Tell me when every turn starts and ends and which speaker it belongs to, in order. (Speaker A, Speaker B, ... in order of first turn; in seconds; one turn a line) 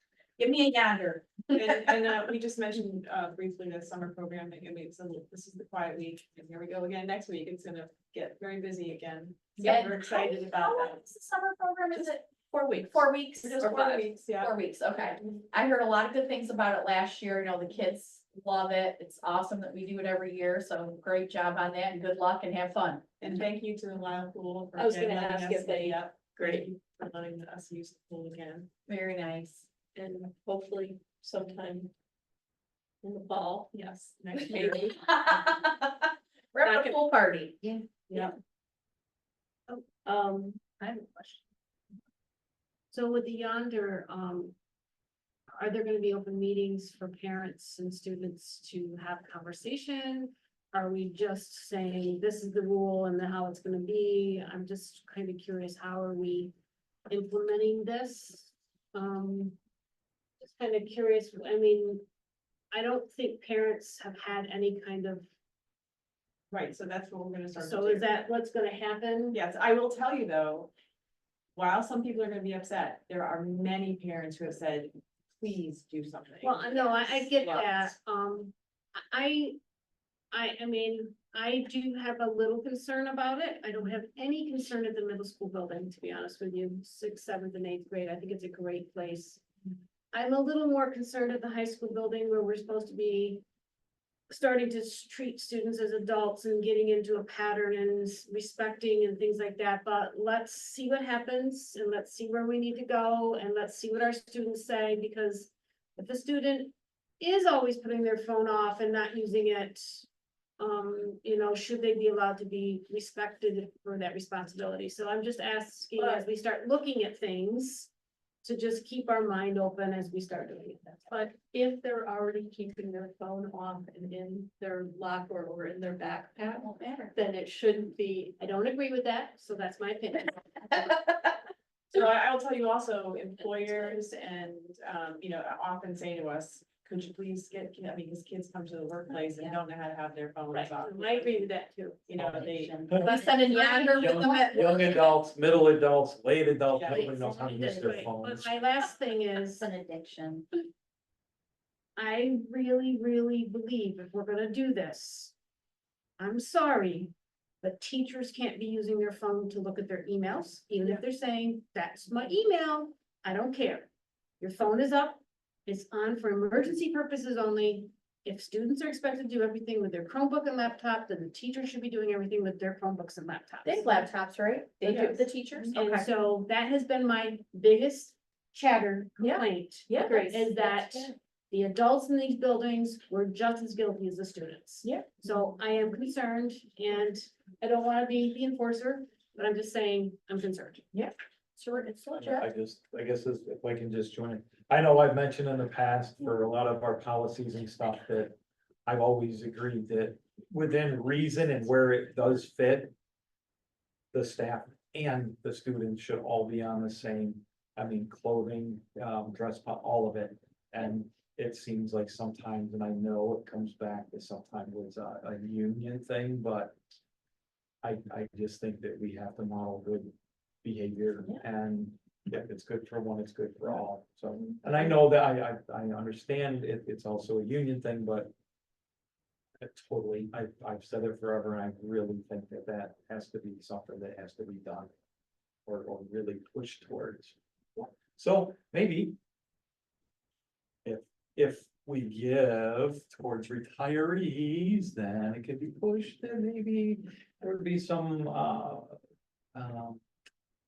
Speaker A: 0.4-1.8
Speaker B: 1.5-11.0
Speaker A: 9.6-12.2
Speaker C: 12.4-13.0
Speaker A: 12.8-23.0
Speaker B: 13.4-14.5
Speaker B: 23.2-28.7
Speaker C: 24.8-26.7
Speaker A: 28.9-29.7
Speaker C: 29.9-31.9
Speaker C: 33.0-33.7
Speaker B: 33.7-35.4
Speaker A: 34.6-37.8
Speaker C: 40.0-41.3
Speaker D: 42.9-44.5
Speaker D: 45.5-56.5
Speaker D: 57.1-59.6
Speaker D: 60.4-62.0
Speaker D: 62.7-65.2
Speaker B: 66.5-68.0
Speaker D: 67.5-69.4
Speaker B: 69.3-70.7
Speaker B: 71.5-77.9
Speaker D: 76.4-79.6
Speaker D: 80.3-89.4
Speaker D: 90.1-93.4
Speaker D: 94.3-110.0
Speaker D: 110.6-117.9
Speaker C: 116.0-116.3
Speaker D: 118.4-121.3
Speaker C: 121.1-128.5
Speaker A: 126.6-127.1
Speaker D: 128.4-130.8
Speaker B: 131.9-141.5
Speaker C: 140.5-142.1
Speaker B: 142.1-143.0
Speaker A: 142.2-145.0
Speaker E: 142.9-143.2
Speaker D: 143.5-144.2
Speaker E: 143.8-148.6
Speaker B: 146.7-147.1
Speaker A: 147.0-147.8
Speaker D: 147.4-149.7
Speaker A: 149.4-150.5
Speaker D: 151.9-155.3
Speaker D: 156.2-173.9
Speaker A: 173.6-176.1
Speaker B: 174.8-175.2
Speaker D: 175.7-190.8
Speaker A: 179.2-179.4
Speaker A: 180.0-181.1
Speaker A: 191.6-192.5
Speaker E: 192.2-202.9
Speaker E: 204.1-216.8
Speaker E: 217.8-220.1
Speaker E: 220.6-228.3
Speaker E: 229.6-234.9
Speaker E: 235.7-239.2
Speaker E: 240.8-249.0
Speaker E: 249.5-250.0